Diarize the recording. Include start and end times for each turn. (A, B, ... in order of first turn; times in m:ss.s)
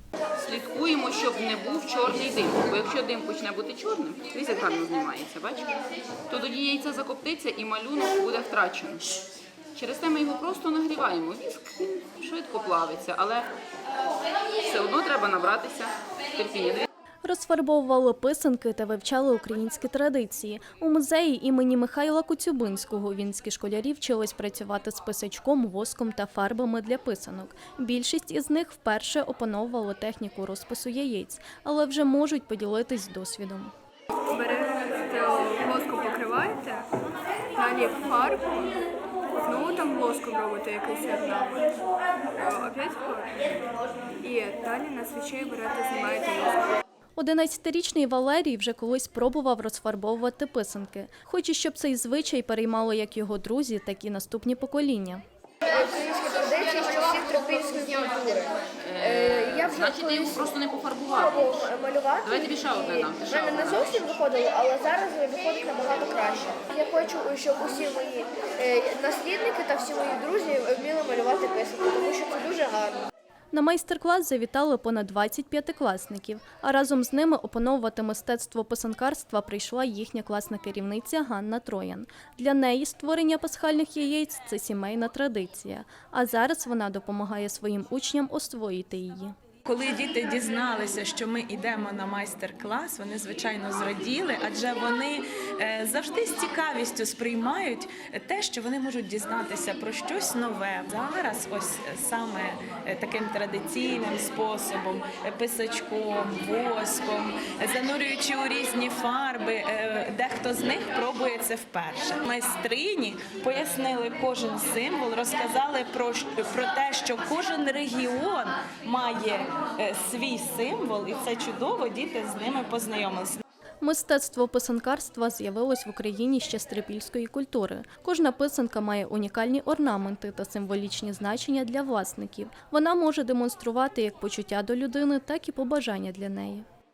0:00.4-0:05.7 A
0:06.3-0:09.2 A
0:09.8-0:13.5 A
0:14.6-0:16.9 A
0:17.2-0:33.7 B
0:34.3-0:36.9 C
0:37.6-0:38.8 C
0:39.4-0:41.8 C
0:42.4-0:43.5 C
0:44.2-0:46.7 C
0:47.2-0:55.2 B
0:55.7-1:00.4 D
0:58.8-1:01.6 A
1:01.2-1:13.1 D
1:02.2-1:04.0 A
1:13.5-1:29.3 B
1:29.6-2:03.4 E
2:03.8-2:16.6 B